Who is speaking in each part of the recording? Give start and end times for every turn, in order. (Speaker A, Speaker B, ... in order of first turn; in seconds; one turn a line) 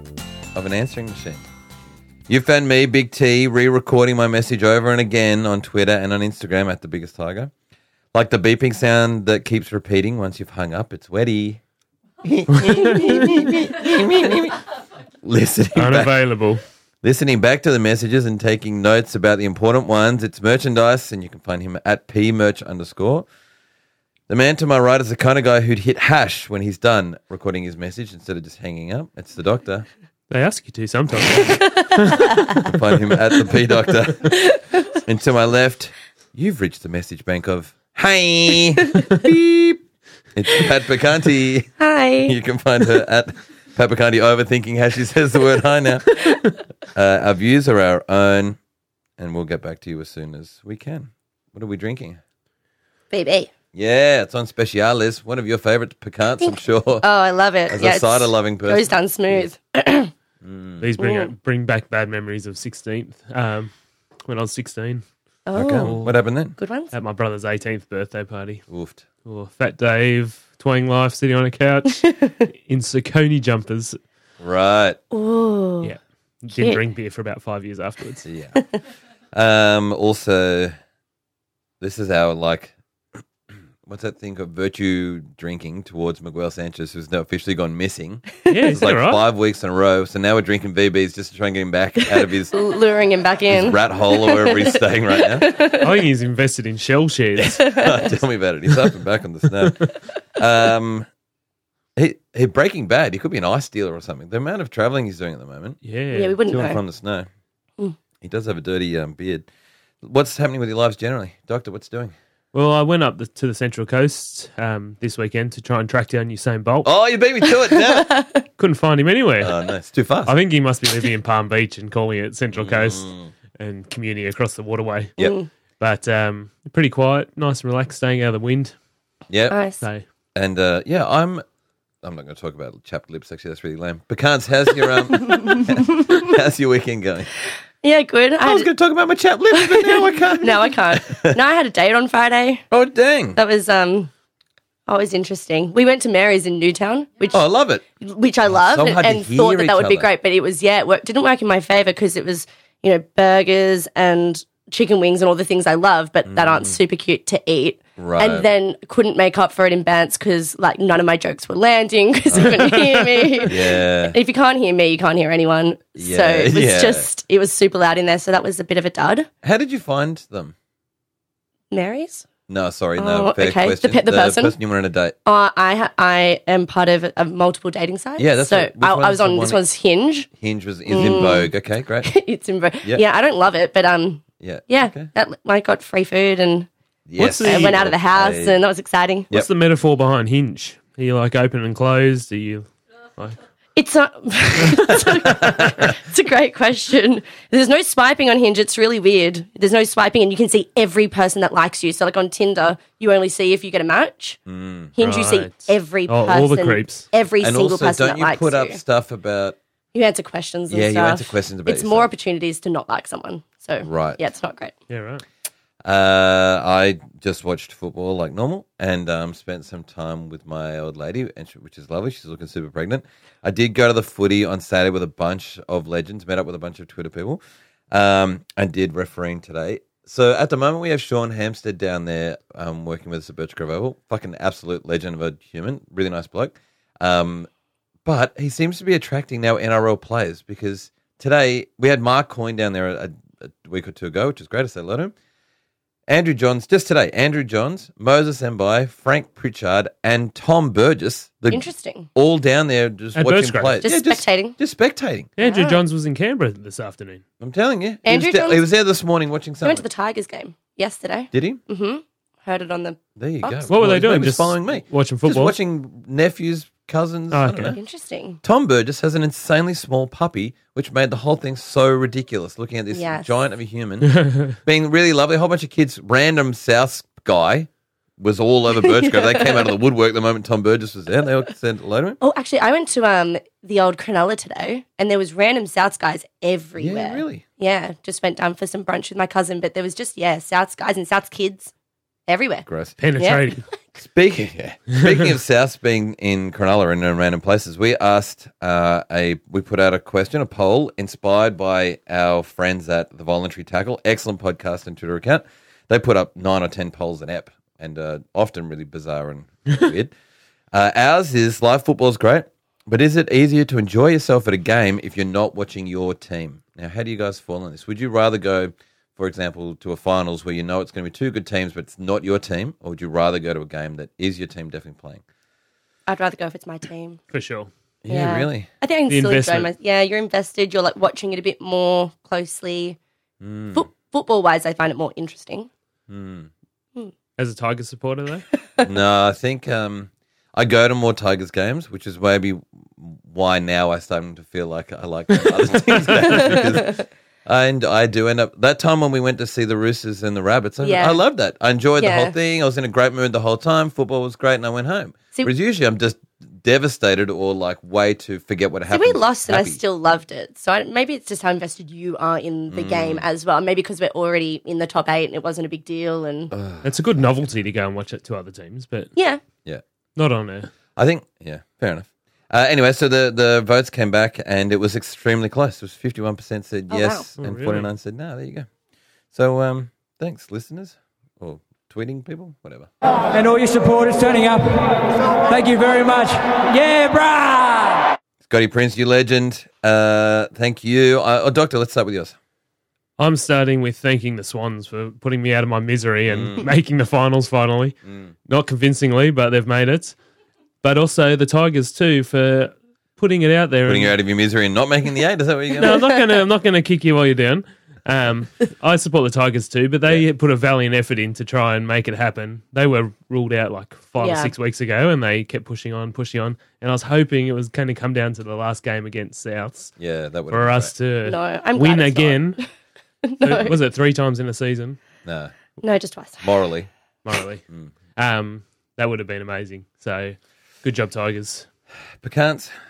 Speaker A: 0.5-1.4
Speaker A: 2.3-7.5
Speaker A: 8.1-11.6
Speaker A: 12.2-14.6
Speaker B: 12.5-13.0
Speaker A: 15.2-16.2
Speaker B: 15.8-16.6
Speaker A: 17.0-23.3
Speaker A: 24.3-29.9
Speaker B: 30.3-32.8
Speaker C: 31.4-32.6
Speaker A: 32.6-39.8
Speaker C: 34.3-34.8
Speaker A: 40.3-41.7
Speaker C: 41.8-42.4
Speaker A: 42.2-46.3
Speaker A: 46.9-48.6
Speaker A: 49.2-52.2
Speaker C: 53.1-53.5
Speaker A: 53.7-57.0
Speaker C: 56.4-60.1
Speaker A: 57.7-58.9
Speaker A: 60.4-60.8
Speaker B: 60.8-63.7
Speaker C: 61.0-61.3
Speaker B: 64.2-65.0
Speaker C: 65.5-66.0
Speaker A: 65.5-66.5
Speaker B: 65.8-66.1
Speaker C: 66.5-66.9
Speaker B: 66.9-68.6
Speaker A: 68.7-69.0
Speaker B: 69.2-74.0
Speaker C: 72.1-72.4
Speaker A: 74.4-75.0
Speaker C: 75.1-75.9
Speaker B: 75.8-78.2
Speaker C: 76.5-76.8
Speaker A: 78.2-78.6
Speaker A: 79.3-80.7
Speaker A: 81.8-82.7
Speaker A: 83.8-92.5
Speaker B: 88.5-89.2
Speaker C: 92.5-95.9
Speaker A: 93.5-95.5
Speaker B: 95.8-97.6
Speaker A: 97.4-101.1
Speaker C: 97.6-98.1
Speaker A: 102.0-105.8
Speaker B: 105.8-106.4
Speaker C: 106.1-106.8
Speaker A: 106.5-107.3
Speaker A: 108.2-109.5
Speaker A: 110.0-112.1
Speaker B: 112.5-116.9
Speaker A: 116.8-118.1
Speaker C: 117.7-118.4
Speaker B: 118.6-119.5
Speaker A: 119.4-120.3
Speaker B: 120.2-125.2
Speaker A: 122.5-123.3
Speaker C: 125.2-125.5
Speaker B: 125.8-128.7
Speaker A: 129.3-129.6
Speaker C: 129.5-129.8
Speaker A: 130.3-131.4
Speaker A: 132.0-137.3
Speaker C: 135.1-136.2
Speaker C: 137.8-138.7
Speaker A: 138.4-141.4
Speaker C: 139.5-142.6
Speaker A: 142.7-143.4
Speaker C: 143.3-144.1
Speaker C: 144.9-147.4
Speaker A: 147.3-147.8
Speaker C: 148.0-169.3
Speaker A: 148.5-150.1
Speaker A: 156.3-156.8
Speaker A: 158.0-158.5
Speaker A: 162.3-162.8
Speaker B: 162.4-163.3
Speaker A: 163.4-164.2
Speaker A: 165.9-167.1
Speaker A: 169.4-170.5
Speaker C: 171.7-172.2
Speaker A: 172.5-175.2
Speaker C: 172.9-174.5
Speaker C: 175.2-180.3
Speaker A: 178.2-179.6
Speaker A: 180.4-182.1
Speaker C: 180.9-181.5
Speaker C: 182.0-186.7
Speaker A: 184.4-185.1
Speaker A: 187.1-188.6
Speaker B: 187.2-187.8
Speaker C: 187.2-189.3
Speaker B: 189.3-192.7
Speaker C: 193.8-204.4
Speaker A: 195.4-195.9
Speaker A: 204.5-204.9
Speaker C: 204.9-208.8
Speaker B: 205.0-207.1
Speaker A: 207.4-209.6
Speaker C: 209.9-214.7
Speaker A: 210.7-212.1
Speaker A: 213.8-214.2
Speaker B: 214.9-215.2
Speaker A: 215.8-227.4
Speaker A: 227.9-237.5
Speaker A: 238.0-245.1
Speaker A: 246.1-255.3
Speaker C: 251.5-252.1
Speaker B: 253.1-253.8
Speaker C: 253.8-254.6
Speaker B: 255.4-257.2
Speaker C: 255.4-255.8
Speaker A: 257.4-259.9
Speaker C: 258.0-258.6
Speaker C: 259.6-263.8
Speaker A: 261.3-261.6
Speaker A: 263.1-267.8
Speaker B: 263.7-265.5
Speaker B: 267.3-267.8
Speaker C: 267.7-268.4
Speaker A: 268.4-282.2
Speaker C: 272.9-273.3
Speaker B: 274.0-274.6
Speaker C: 278.8-279.7
Speaker C: 282.2-291.7
Speaker A: 286.8-287.4
Speaker C: 292.3-292.6
Speaker A: 292.7-293.0
Speaker B: 293.0-293.6
Speaker C: 293.2-293.8
Speaker A: 294.0-310.1
Speaker B: 294.9-295.2
Speaker A: 310.7-325.2
Speaker C: 326.1-327.2
Speaker B: 327.3-327.7
Speaker A: 328.0-328.7
Speaker C: 328.1-333.0
Speaker B: 329.1-329.7
Speaker A: 333.4-333.9
Speaker C: 333.7-335.7
Speaker A: 336.1-336.5
Speaker B: 337.4-338.5
Speaker A: 338.8-359.8
Speaker C: 346.2-347.0
Speaker C: 350.8-351.2
Speaker C: 352.0-352.4
Speaker C: 358.9-366.5
Speaker A: 362.7-363.2
Speaker A: 366.5-367.2
Speaker B: 366.8-369.1
Speaker C: 369.1-369.4
Speaker B: 370.1-370.7
Speaker A: 370.9-378.7
Speaker C: 376.9-377.3
Speaker B: 377.4-377.9
Speaker A: 379.3-382.9
Speaker D: 383.3-387.9
Speaker A: 388.4-392.4
Speaker B: 393.2-400.1
Speaker A: 396.2-396.6
Speaker B: 400.8-404.1
Speaker A: 403.8-406.0
Speaker B: 405.8-419.9
Speaker C: 405.9-406.2
Speaker C: 414.2-414.5
Speaker A: 420.0-420.9
Speaker B: 420.5-422.6
Speaker C: 421.2-422.7
Speaker C: 423.2-423.7
Speaker B: 423.4-425.0
Speaker A: 425.2-425.5
Speaker C: 425.8-426.4
Speaker A: 426.4-426.9
Speaker B: 427.2-427.6
Speaker B: 428.1-431.7
Speaker A: 432.2-432.7